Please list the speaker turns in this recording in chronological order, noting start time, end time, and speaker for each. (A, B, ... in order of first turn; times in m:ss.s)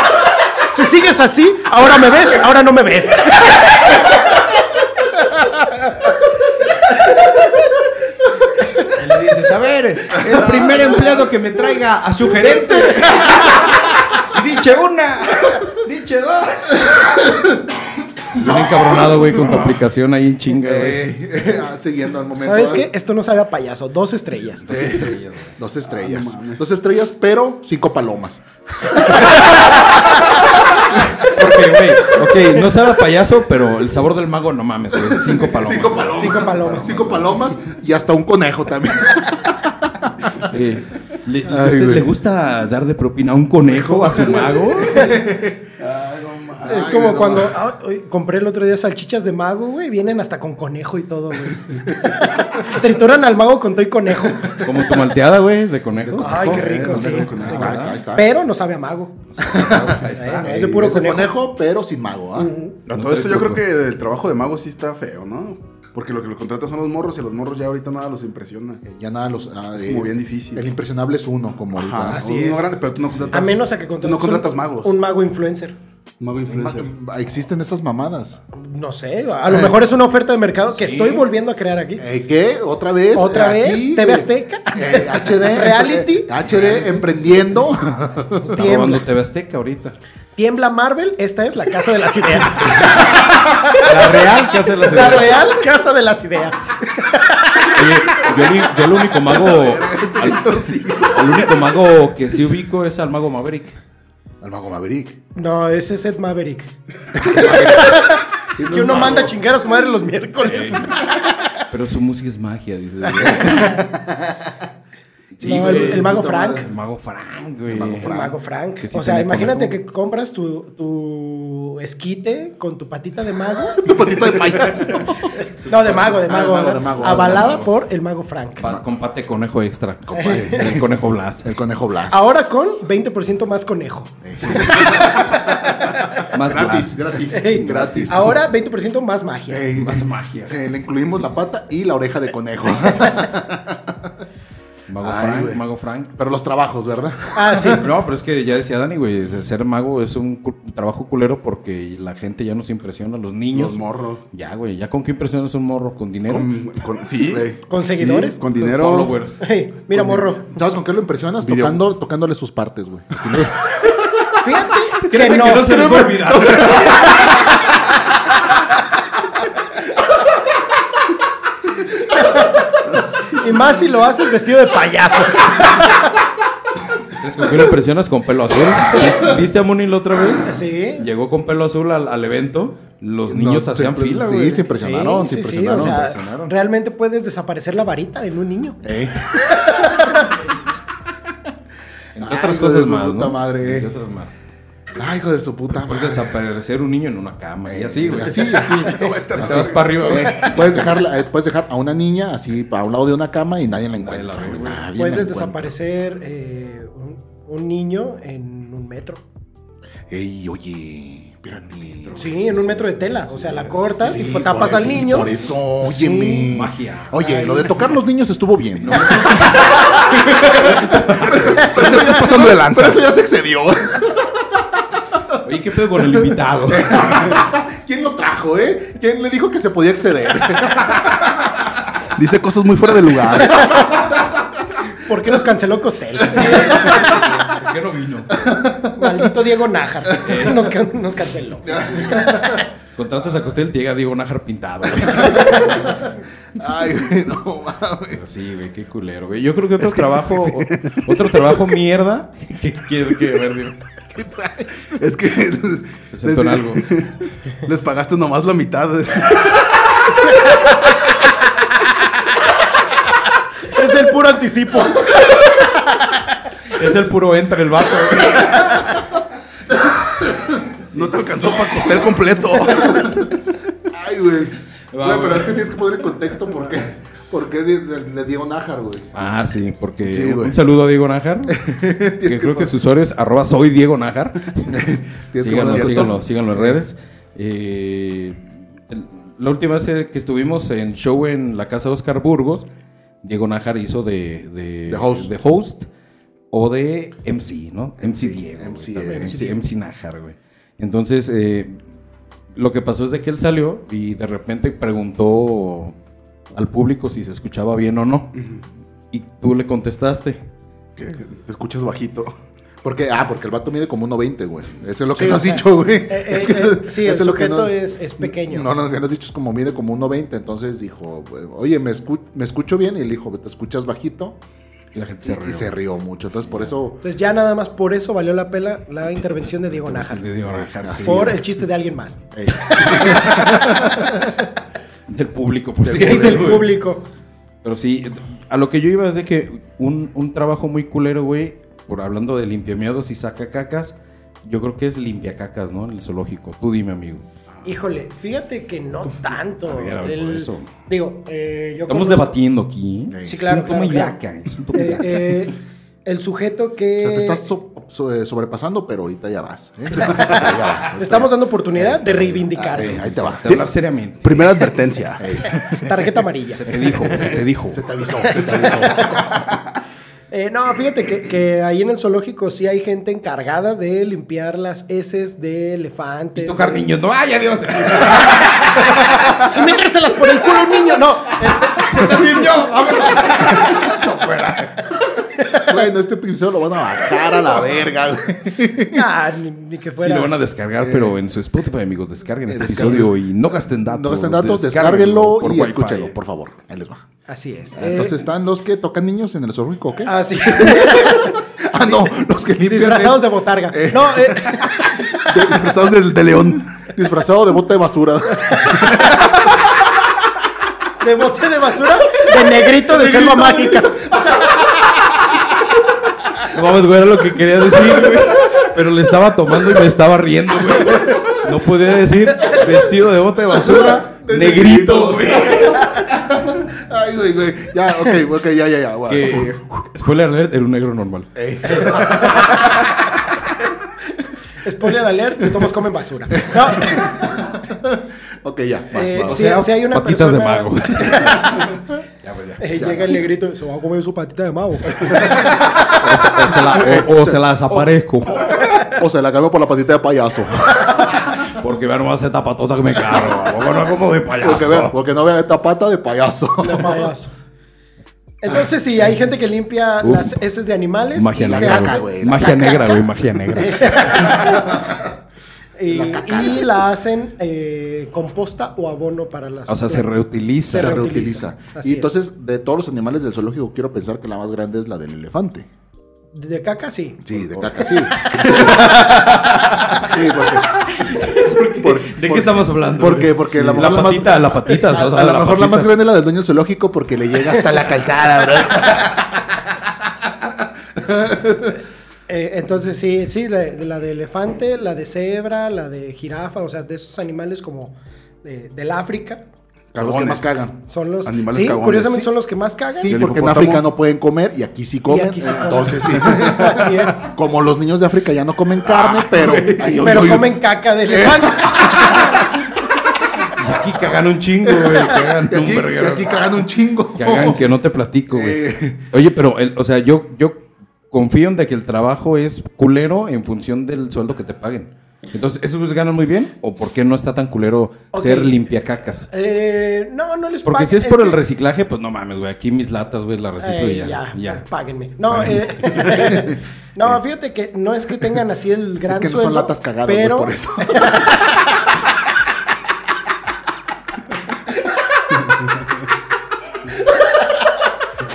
0:00.6-0:04.0 A
0:05.2-0:05.9 A
0:08.8-0:17.2 B
0:18.3-0:21.0 B
0:20.6-0:22.9 C
0:22.3-0:24.7 A
0:24.6-0:25.5 B
0:24.7-0:29.8 C
0:25.9-0:26.6 D
0:29.2-0:29.5 B
0:30.9-0:37.2 B
0:35.0-0:40.5 C
0:36.1-0:37.1 A
0:40.3-0:45.2 B
0:41.5-0:42.1 C
0:43.9-0:45.7 C
0:44.0-0:44.5 D
0:45.8-0:46.8 D
0:46.6-0:47.6 C
0:46.6-0:54.6 A
0:54.6-0:56.6 B
0:56.0-0:58.3 C
0:56.2-0:57.9 D
0:56.2-0:59.2 A
0:57.4-0:58.0 B
0:59.3-1:00.5 B
0:59.4-1:02.5 C
1:00.1-1:01.4 A
1:02.4-1:08.8 D
1:02.9-1:03.6 B
1:08.8-1:12.2 C
1:09.8-1:10.7 D
1:11.7-1:14.9 D
1:12.1-1:12.7 A
1:13.3-1:15.8 A
1:16.2-1:16.9 D
1:16.5-1:18.4 C
1:18.5-1:22.0 A
1:20.7-1:21.2 B
1:22.0-1:28.8 C
1:23.1-1:26.3 A
1:26.6-1:27.2 B
1:28.4-1:29.0 A
1:28.4-1:30.0 B
1:30.4-1:38.3 A
1:32.7-1:35.5 B
1:37.6-1:43.8 B
1:39.2-1:41.5 D
1:44.4-1:45.2 C
1:45.3-1:51.6 A
1:47.1-1:49.4 C
1:50.4-1:51.0 B
1:51.7-1:53.8 B
1:53.2-1:54.6 C
1:53.2-1:53.8 A
1:55.4-1:58.3 B
1:55.4-1:56.7 A
1:55.4-1:56.7 C
1:57.7-1:58.3 C
1:58.0-2:04.7 A
1:58.8-1:59.8 B
2:03.8-2:07.6 C
2:05.4-2:08.8 A
2:07.0-2:07.7 B
2:08.6-2:11.5 B
2:10.0-2:12.7 C
2:10.2-2:10.6 A
2:12.1-2:16.2 A
2:14.2-2:15.4 C
2:16.3-2:18.1 B
2:16.3-2:18.4 D
2:17.3-2:19.7 A
2:17.5-2:18.4 C
2:19.5-2:24.1 C
2:19.7-2:20.6 B
2:24.9-2:26.2 B
2:25.0-2:25.6 C
2:26.2-2:27.8 C
2:27.3-2:27.8 A
2:27.8-2:36.5 B
2:33.5-2:34.2 D
2:36.3-2:39.2 D
2:37.7-2:38.4 A
2:38.5-2:39.4 B
2:39.4-2:40.5 A
2:40.0-2:40.2 D
2:40.4-2:43.4 C
2:41.4-2:41.8 D
2:43.2-2:43.6 B
2:44.4-2:46.1 A
2:45.0-2:47.5 B
2:45.1-2:47.2 D
2:47.2-2:47.5 A
2:52.1-2:52.6 A
2:53.2-2:56.1 A
2:57.1-3:04.7 B
3:00.3-3:01.0 A
3:03.3-3:06.0 C
3:04.7-3:08.8 A
3:05.6-3:06.5 B
3:08.8-3:09.7 C
3:09.4-3:10.3 A
3:12.2-3:13.9 C
3:12.2-3:14.3 B
3:14.9-3:16.4 C
3:15.7-3:18.6 B
3:17.7-3:25.7 C
3:18.2-3:20.7 D
3:19.3-3:20.8 B
3:24.0-3:24.8 B
3:25.0-3:29.2 A
3:30.1-3:32.6 C
3:31.7-3:35.4 B
3:32.2-3:35.3 A
3:33.9-3:45.4 C
3:35.8-3:36.5 A
3:36.5-3:37.3 B
3:37.2-3:37.8 A
3:38.8-3:41.4 B
3:39.6-3:41.8 A
3:41.0-3:43.0 D
3:45.4-3:47.4 B
3:46.2-3:51.3 C
3:52.1-3:53.8 D
3:53.5-3:54.1 A
3:53.9-3:54.8 C
3:55.0-3:57.2 A
3:56.3-3:58.5 B
3:56.4-3:57.3 C
3:58.3-3:59.3 C
3:58.9-4:02.6 A
4:00.1-4:00.4 C
4:00.2-4:00.7 B
4:01.6-4:02.7 C
4:03.0-4:06.0 B
4:05.1-4:08.2 C
4:08.1-4:13.8 B
4:10.6-4:11.0 D
4:14.1-4:16.0 C
4:14.9-4:15.7 D
4:16.1-4:17.0 B
4:16.2-4:19.6 D
4:20.4-4:20.7 A
4:23.7-4:26.2 A
4:26.7-4:29.0 B
4:29.7-4:30.7 C
4:30.9-4:31.1 B
4:30.9-4:33.3 D
4:32.7-4:33.2 C
4:33.9-4:39.1 C
4:34.9-4:35.6 B
4:39.1-4:52.7 B
4:40.0-4:40.6 C
4:41.5-4:42.7 C
4:44.7-4:46.8 C
4:53.2-4:55.9 B
4:54.9-4:55.3 C
4:56.5-5:01.8 B
4:58.0-4:59.4 C
4:59.0-4:59.6 A
5:02.5-5:05.9 B
5:06.5-5:08.3 B
5:09.1-5:10.4 B
5:11.0-5:12.3 D
5:12.8-5:24.4 C
5:15.1-5:18.7 A
5:24.9-5:25.7 B
5:25.2-5:27.0 C
5:27.0-5:30.3 A
5:29.6-5:31.5 B
5:30.6-5:31.4 C
5:31.0-5:32.2 A
5:32.3-5:34.3 C
5:32.6-5:34.1 B
5:32.7-5:33.9 A
5:35.1-5:36.7 B
5:35.8-5:36.6 C
5:35.9-5:37.0 A
5:37.6-5:47.2 B
5:47.6-5:52.3 A
5:49.6-5:50.7 B
5:51.9-5:55.5 B
5:53.1-5:53.4 C
5:53.2-5:54.2 A
5:54.7-5:57.4 A
5:57.0-6:03.6 C
6:00.8-6:03.1 A
6:02.8-6:04.6 B
6:04.2-6:05.6 D
6:05.2-6:05.9 C
6:05.7-6:06.6 A
6:06.5-6:07.8 B
6:06.7-6:09.6 C
6:08.8-6:09.2 A
6:10.3-6:16.8 A
6:16.4-6:19.5 B
6:18.6-6:22.4 A
6:21.6-6:24.9 B
6:23.2-6:23.9 C
6:25.4-6:25.7 A
6:25.5-6:29.1 C
6:28.9-6:30.3 A
6:30.0-6:36.1 B
6:30.8-6:31.1 C
6:32.5-6:33.2 C
6:33.8-6:37.0 C
6:37.3-6:38.2 A
6:37.7-6:45.7 C
6:40.0-6:41.4 A
6:42.6-6:45.3 A
6:45.2-6:46.8 D
6:46.8-6:49.4 C
6:51.0-6:54.6 A
6:52.6-6:55.4 C
6:56.4-7:05.9 B
7:00.9-7:01.4 C
7:02.5-7:02.7 C
7:03.5-7:09.6 C
7:09.1-7:11.9 B
7:11.4-7:12.9 C
7:14.6-7:17.3 A
7:16.3-7:19.5 C
7:18.9-7:21.8 A
7:19.2-7:21.7 B
7:22.2-7:22.6 B
7:22.6-7:25.5 A
7:22.7-7:23.2 C
7:25.0-7:31.2 C
7:25.2-7:28.6 B
7:31.0-7:35.0 B
7:34.4-7:37.1 C
7:36.6-7:37.3 A
7:38.4-7:42.8 A
7:40.0-7:40.4 B
7:41.2-7:44.6 B
7:41.4-7:42.8 C
7:43.5-7:44.9 A
7:44.4-7:45.0 C
7:45.8-7:52.1 A
7:45.9-7:46.8 C
7:49.7-7:51.0 B
7:50.7-7:55.7 C
7:56.3-7:57.3 A
7:57.2-8:09.5 C
7:58.2-7:58.5 A
7:58.2-8:05.9 B
8:10.9-8:11.8 C
8:12.3-8:19.4 A
8:19.9-8:20.8 C
8:19.9-8:20.5 D
8:20.9-8:23.2 A
8:21.2-8:22.3 D
8:22.8-8:32.5 C
8:23.1-8:23.9 D
8:25.1-8:27.3 A
8:29.4-8:29.6 B
8:29.4-8:29.7 D
8:29.9-8:32.5 A
8:33.4-8:36.4 B
8:34.8-8:37.7 C
8:37.2-8:49.3 B
8:38.3-8:39.1 C
8:48.1-8:48.6 A
8:49.3-8:51.4 A
8:50.6-8:54.6 B
8:53.6-9:01.9 A
8:55.3-8:56.3 B
8:59.1-9:01.3 C